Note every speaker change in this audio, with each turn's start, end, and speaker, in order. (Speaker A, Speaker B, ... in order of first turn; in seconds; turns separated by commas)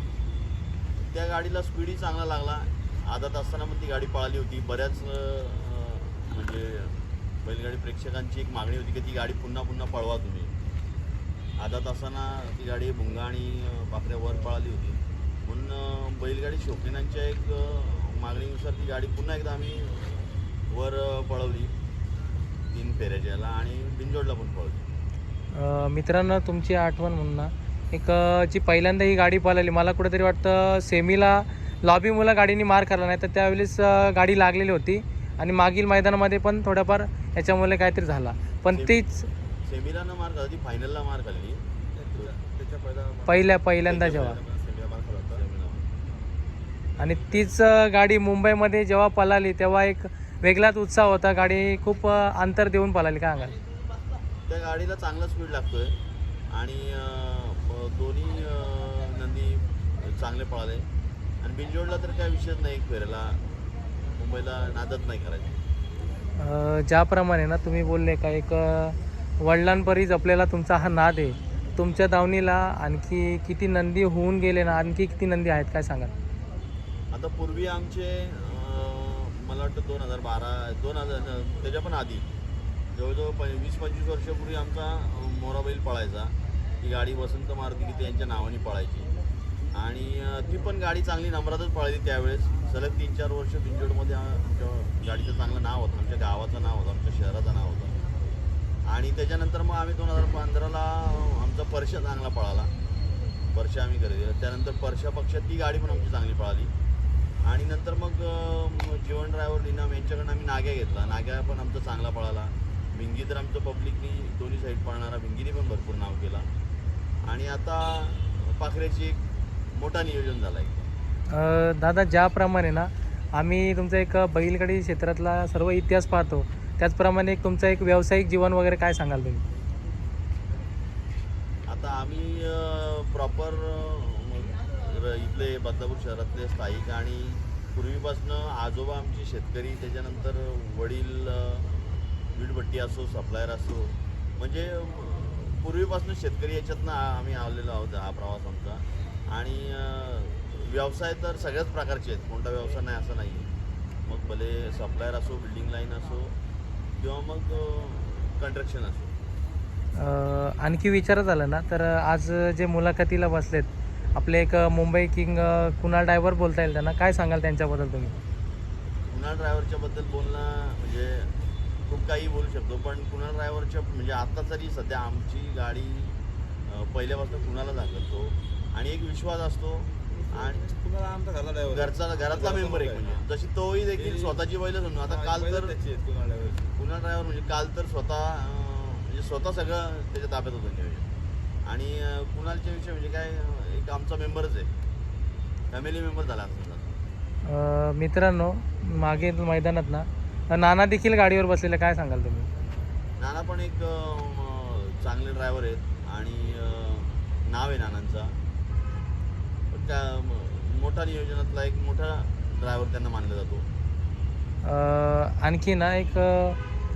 Speaker A: 1.0-10.5, Speaker A: 11.6-21.7, Speaker A: 22.7-24.8, Speaker B: 25.5-39.2, Speaker A: 38.7-39.0, Speaker A: 39.6-41.6, Speaker C: 41.9-45.4, Speaker B: 43.3-44.4, Speaker A: 43.9-44.4, Speaker A: 45.3-45.9, Speaker B: 47.0-53.5, Speaker A: 54.5-55.9, Speaker A: 56.5-60.9, Speaker A: 61.4-63.4, Speaker A: 64.2-65.6, Speaker B: 66.4-76.1, Speaker A: 77.1-82.3, Speaker A: 82.9-89.1, Speaker A: 89.7-98.0, Speaker A: 98.9-102.7, Speaker A: 103.5-106.7, Speaker A: 107.4-116.5, Speaker A: 117.2-119.2, Speaker A: 119.7-120.8, Speaker B: 121.3-129.4, Speaker A: 131.7-153.5, Speaker A: 154.1-156.3, Speaker A: 157.0-159.1, Speaker B: 159.9-168.1, Speaker A: 169.1-171.3, Speaker A: 171.9-180.7, Speaker C: 180.4-183.2, Speaker A: 181.7-185.8, Speaker C: 183.9-184.4, Speaker C: 185.0-186.7, Speaker A: 186.8-191.1, Speaker A: 191.6-194.7, Speaker A: 195.7-196.9, Speaker B: 197.4-202.5, Speaker A: 203.2-208.4, Speaker A: 209.7-213.7, Speaker B: 214.6-216.6